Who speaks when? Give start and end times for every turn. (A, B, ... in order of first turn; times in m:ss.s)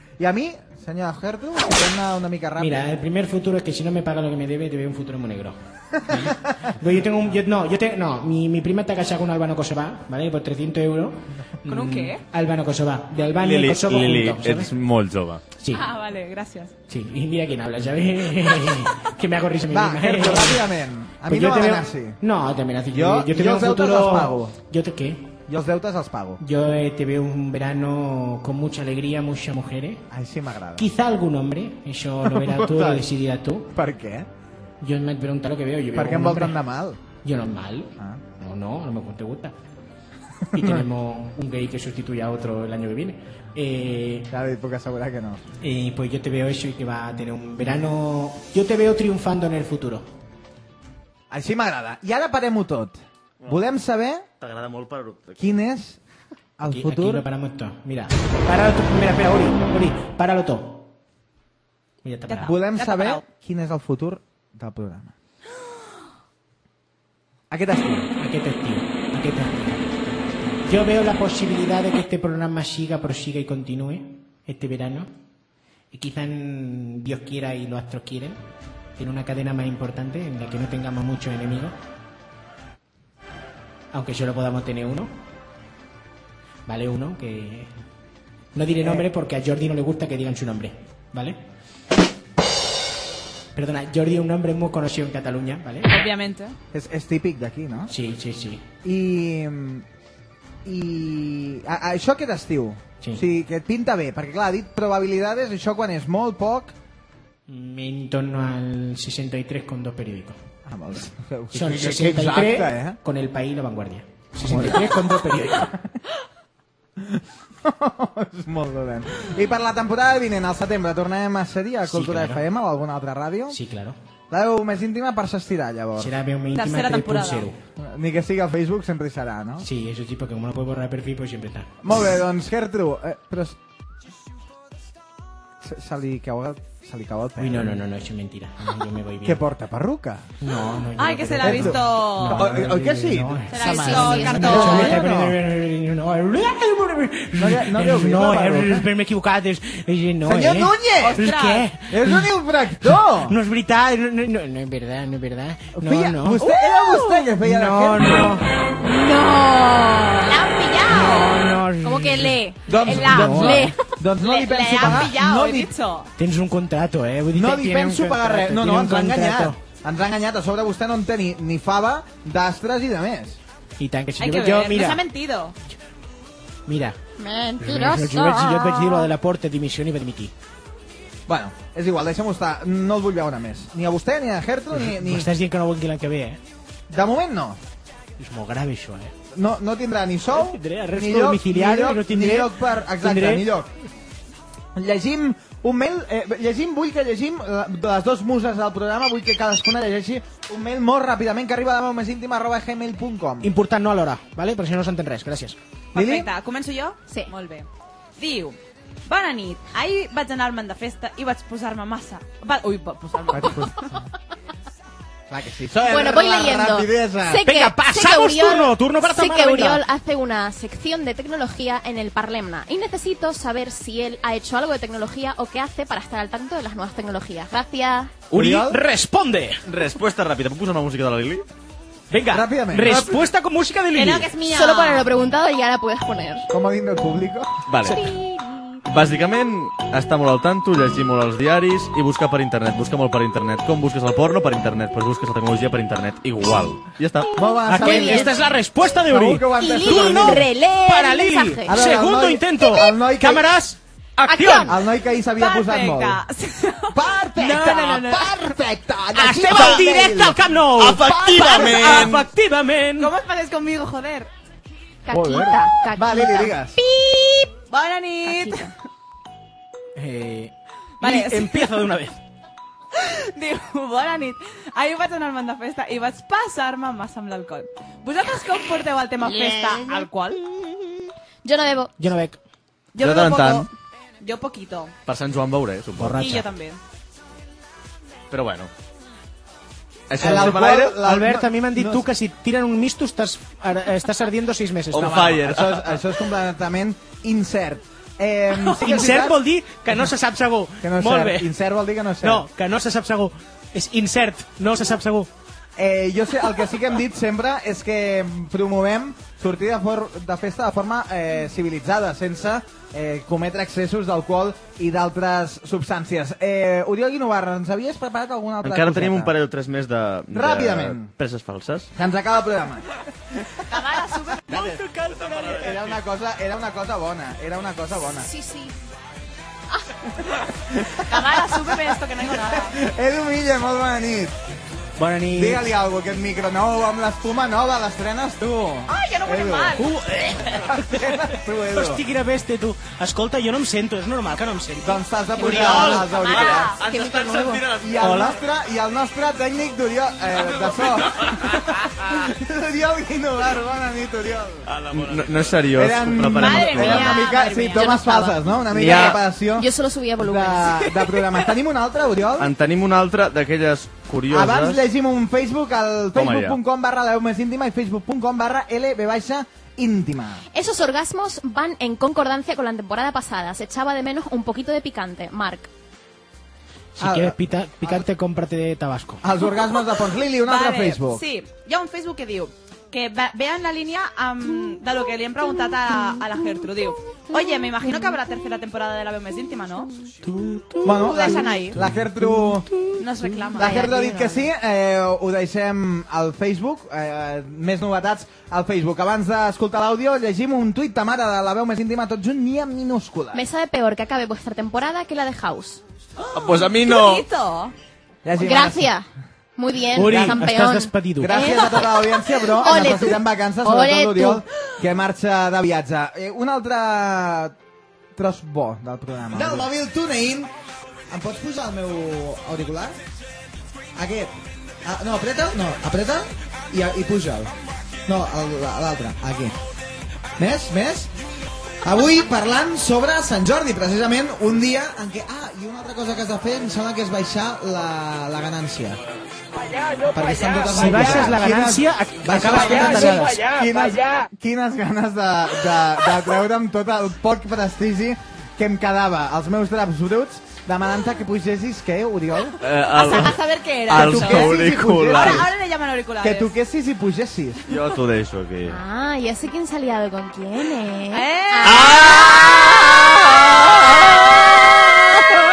0:00.2-0:02.9 A
0:02.6-0:14.7 B
0:06.0-0:06.5 A
0:11.7-0:12.2 C
0:13.4-0:15.4 D
0:15.6-0:15.9 B
0:15.7-0:16.7 C
0:16.9-0:20.7 B
0:19.7-0:22.2 A
0:21.3-0:25.4 B
0:22.9-0:24.6 A
0:25.5-0:26.4 A
0:26.4-0:30.1 B
0:30.1-0:30.9 A
0:30.8-0:33.7 B
0:32.2-0:33.1 A
0:33.7-0:34.3 A
0:34.8-0:36.6 B
0:35.9-0:37.0 A
0:37.2-0:39.5 B
0:40.5-0:40.8 A
0:40.5-0:44.3 B
0:44.3-0:45.4 A
0:45.6-0:50.1 B
0:51.3-0:54.3 A
0:54.4-0:55.4 D
0:55.4-0:56.0 A
0:56.6-0:57.3 A
0:56.6-1:00.9 B
1:02.0-1:02.5 B
1:02.3-1:03.2 C
1:02.4-1:05.1 A
1:07.5-1:08.1 A
1:08.2-1:15.1 B
1:15.9-1:18.4 B
1:19.0-1:21.8 B
1:23.9-1:25.1 B
1:26.7-1:27.7 B
1:28.6-1:31.4 B
1:28.8-1:29.1 A
1:33.6-1:36.0 B
1:35.9-1:36.6 C
1:36.7-1:37.9 A
1:37.9-1:38.6 B
1:38.8-1:39.9 A
1:40.6-1:46.7 A
1:47.5-1:50.4 B
1:50.7-1:53.0 A
1:51.5-1:55.7 B
1:54.4-1:56.0 A
1:57.0-2:03.6 A
2:01.9-2:02.4 B
2:03.5-2:04.0 B
2:04.3-2:06.2 A
2:06.0-2:07.6 B
2:06.5-2:07.5 C
2:07.8-2:09.7 A
2:09.6-2:11.7 B
2:11.8-2:13.6 A
2:15.6-2:17.8 A
2:17.4-2:19.4 B
2:19.2-2:20.3 A
2:20.4-2:38.5 B
2:21.0-2:22.5 C
2:21.4-2:25.4 A
2:23.5-2:25.0 C
2:23.6-2:24.9 E
2:27.4-2:28.9 A
2:30.2-2:31.2 A
2:31.0-2:31.7 C
2:31.9-2:33.4 A
2:35.8-2:38.4 A
2:38.8-2:40.4 E
2:40.2-2:43.6 C
2:40.9-2:43.8 B
2:41.8-2:42.6 E
2:42.7-2:45.7 A
2:43.2-2:43.8 E
2:44.2-2:46.1 C
2:46.2-2:49.6 B
2:47.3-2:53.4 A
2:53.8-2:55.0 B
2:54.2-2:55.6 C
2:56.7-2:57.0 B
2:57.2-2:59.1 E
2:57.6-3:00.3 B
3:01.3-3:05.3 A
3:04.7-3:06.4 B
3:06.9-3:07.6 A
3:08.2-3:09.1 B
3:09.3-3:13.7 A
3:10.3-3:13.4 B
3:14.8-3:23.5 A
3:23.4-3:25.6 B
3:25.9-3:27.7 C
3:26.0-3:26.3 A
3:28.2-3:33.8 C
3:33.3-3:34.0 A
3:35.3-3:37.4 A
3:35.8-3:48.2 E
3:37.4-3:39.8 B
3:48.3-3:49.6 B
3:48.3-3:48.8 A
3:49.7-3:51.5 D
3:52.1-3:54.3 B
3:52.3-3:53.1 A
3:54.0-3:55.1 C
3:54.5-3:56.5 E
3:56.5-3:57.5 A
3:57.7-3:58.1 D
3:57.9-3:58.8 E
3:58.9-4:07.4 D
4:07.4-4:08.4 A
4:07.5-4:08.3 E
4:07.6-4:14.8 B
4:09.0-4:10.5 A
4:09.6-4:11.8 E
4:11.7-4:13.5 A
4:14.3-4:14.7 E
4:14.6-4:16.2 A
4:15.4-4:18.4 C
4:16.9-4:20.5 A
4:19.1-4:23.1 B
4:19.5-4:19.8 D
4:20.8-4:22.3 D
4:21.3-4:22.1 C
4:21.4-4:22.0 A
4:23.0-4:24.3 C
4:25.1-4:27.3 E
4:25.1-4:26.8 A
4:27.6-4:28.7 C
4:28.3-4:28.7 E
4:30.0-4:32.2 B
4:31.0-4:31.9 C
4:33.0-4:40.4 C
4:41.4-4:41.9 E
4:42.0-4:42.4 B
4:42.9-4:43.7 C
4:43.0-4:43.7 D
4:44.2-4:44.9 C
4:45.1-4:46.3 D
4:46.0-4:46.5 B
4:46.2-4:46.8 C
4:48.3-4:48.7 D
4:50.1-4:51.0 D
4:50.2-4:52.1 A
4:50.2-4:55.2 B
4:54.9-4:56.0 D
4:55.0-4:59.4 A
4:58.7-5:01.5 B
5:00.8-5:02.5 A
5:02.2-5:05.3 B
5:05.8-5:19.4 A
5:18.6-5:21.9 D
5:20.3-5:21.1 A
5:21.9-5:22.8 A
5:23.7-5:24.5 C
5:24.5-5:25.8 B
5:24.5-5:25.9 D
5:25.5-5:28.3 A
5:28.2-5:28.7 E
5:30.7-5:34.4 A
5:31.0-5:32.8 C
5:35.0-5:35.7 B
5:35.4-5:39.8 A
5:38.9-5:39.9 C
5:39.8-5:46.0 B
5:40.6-5:42.0 A
5:44.8-5:46.8 A
5:45.5-5:46.8 C
5:46.3-5:48.4 D
5:46.8-5:47.7 E
5:47.8-5:54.8 A
5:54.7-5:57.2 D
5:55.7-6:02.5 A
5:56.2-5:57.9 C
5:57.6-5:59.0 E
5:58.7-5:59.2 D
5:59.5-6:00.8 E
6:01.1-6:01.4 C
6:02.4-6:04.8 D
6:04.3-6:10.4 A
6:06.1-6:06.6 D
6:10.5-6:15.7 E
6:17.0-6:19.2 B
6:17.0-6:18.1 A
6:19.2-6:21.2 A
6:20.4-6:29.9 C
6:30.2-6:33.4 B
6:30.8-6:32.7 A
6:30.9-6:31.8 C
6:33.0-6:34.0 C
6:33.6-6:43.4 A
6:33.6-6:34.4 E
6:43.3-6:45.8 E
6:46.2-6:47.8 C
6:46.3-6:47.3 D
6:48.2-6:48.9 A
6:48.4-6:54.4 E
6:49.9-6:51.4 B
6:51.2-6:57.6 A
6:58.2-7:00.5 A
7:01.1-7:03.0 A
7:04.0-7:07.5 A
7:08.1-7:09.6 A
7:10.4-7:11.1 A
7:11.8-7:19.0 A
7:20.1-7:32.6 A
7:20.7-7:23.4 B
7:32.6-7:35.4 D
7:32.9-7:36.5 C
7:33.9-7:35.5 A
7:36.2-7:37.6 A
7:37.7-7:38.8 D
7:38.7-7:42.2 E
7:41.1-7:44.2 C
7:41.6-7:42.8 D